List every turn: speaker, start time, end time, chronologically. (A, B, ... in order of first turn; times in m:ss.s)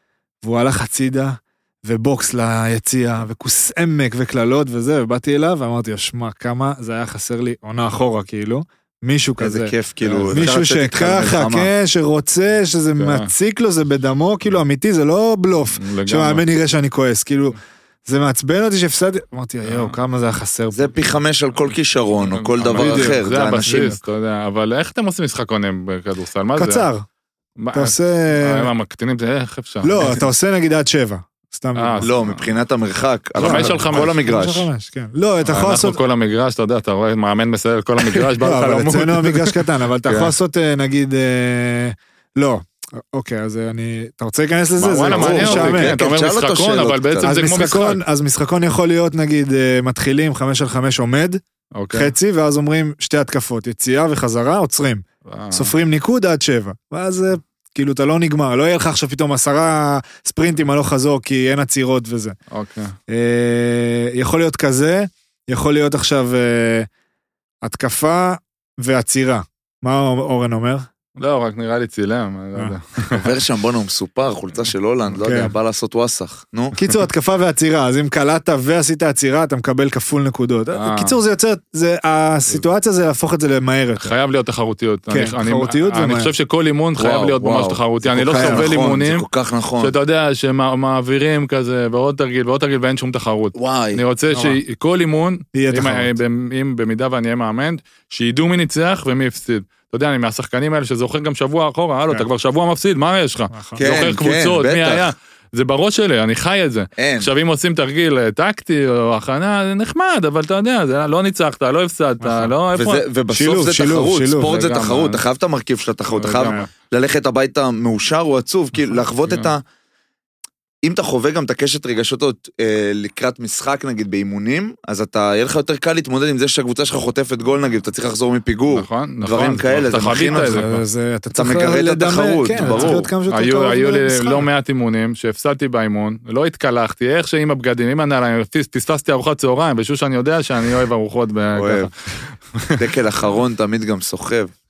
0:00.4-0:09.7 A
0:09.4-0:11.7 B
0:10.0-0:10.5 C
0:10.3-0:20.9 A
0:13.0-0:13.3 C
0:15.8-0:16.4 C
0:19.6-0:20.0 C
0:20.7-0:23.9 B
0:22.3-0:26.9 C
0:22.7-0:24.0 A
0:26.6-0:27.0 A
0:27.6-0:30.2 C
0:27.7-0:28.7 A
0:29.8-0:32.1 A
0:31.7-0:32.4 C
0:32.0-0:34.7 B
0:33.4-0:36.0 A
0:33.4-0:34.2 C
0:35.4-0:40.3 C
0:38.0-0:46.0 A
0:44.8-0:48.0 C
0:45.1-0:47.3 B
0:47.2-0:51.4 A
0:51.7-0:52.1 C
0:51.9-1:02.4 A
0:55.2-0:55.7 C
1:02.5-1:02.9 C
1:03.1-1:06.9 A
1:07.6-1:10.8 A
1:11.2-1:13.3 C
1:13.1-1:16.8 B
1:15.1-1:15.5 A
1:16.8-1:24.1 A
1:20.7-1:21.2 C
1:24.0-1:29.3 C
1:25.1-1:26.3 A
1:27.0-1:29.9 B
1:28.1-1:28.7 A
1:29.8-1:53.0 C
1:33.5-1:34.0 B
1:34.3-1:34.6 A
1:35.5-1:36.2 A
1:43.5-1:43.9 A
1:43.8-1:45.1 B
1:47.0-1:47.3 B
1:52.2-1:52.5 A
1:52.7-1:59.6 B
1:53.3-1:54.5 A
1:54.4-1:55.2 C
1:56.1-1:56.6 C
1:59.2-1:59.5 C
2:00.8-2:10.6 B
2:08.7-2:10.8 C
2:10.3-2:14.5 A
2:11.3-2:13.1 B
2:12.6-2:22.8 C
2:21.5-2:21.9 B
2:22.8-2:24.5 B